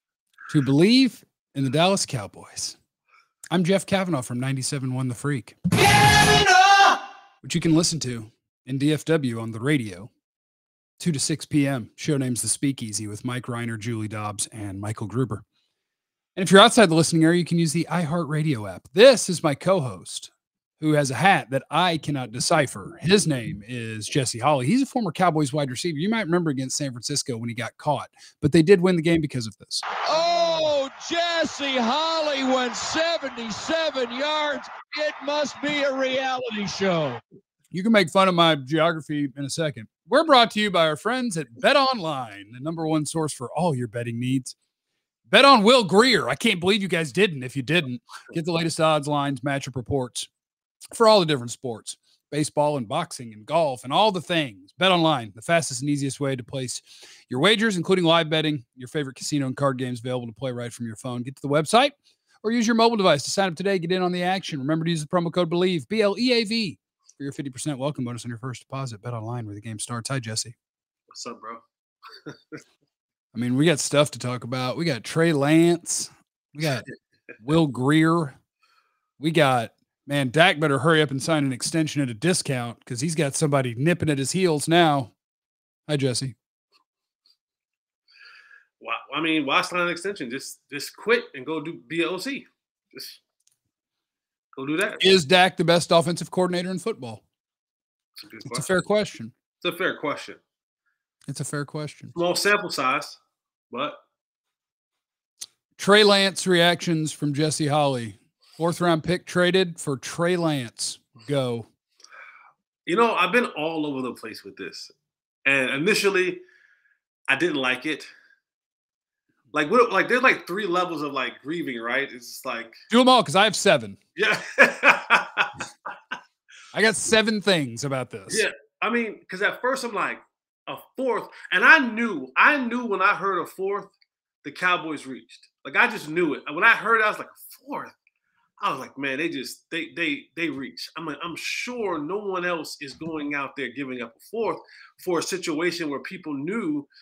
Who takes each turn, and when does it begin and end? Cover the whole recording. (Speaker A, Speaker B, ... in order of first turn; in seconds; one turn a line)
Speaker A: 0.5-2.8
Speaker A: 3.5-5.6
Speaker B: 5.8-7.0
Speaker A: 7.4-10.1
Speaker A: 11.0-15.4
Speaker A: 16.4-29.9
Speaker B: 30.0-37.2
Speaker A: 37.7-44.5
Speaker A: 45.3-50.3
Speaker A: 50.9-70.5
Speaker C: 71.1-71.6
Speaker C: 72.3-72.6
Speaker A: 73.3-76.9
Speaker A: 77.4-78.4
Speaker A: 79.2-85.1
Speaker A: 85.9-86.4
Speaker C: 88.8-93.2
Speaker C: 94.5-95.1
Speaker A: 95.0-97.2
Speaker C: 98.2-98.7
Speaker A: 98.5-99.3
Speaker C: 99.6-100.4
Speaker A: 101.3-102.2
Speaker C: 102.2-103.2
Speaker C: 103.7-104.0
Speaker A: 105.8-111.7
Speaker C: 112.9-114.9
Speaker C: 115.5-116.4
Speaker C: 117.3-118.1
Speaker C: 119.5-122.8
Speaker A: 122.9-124.0
Speaker C: 124.2-125.5
Speaker A: 126.7-128.4
Speaker C: 128.3-133.9
Speaker C: 134.4-137.9
Speaker C: 138.6-146.9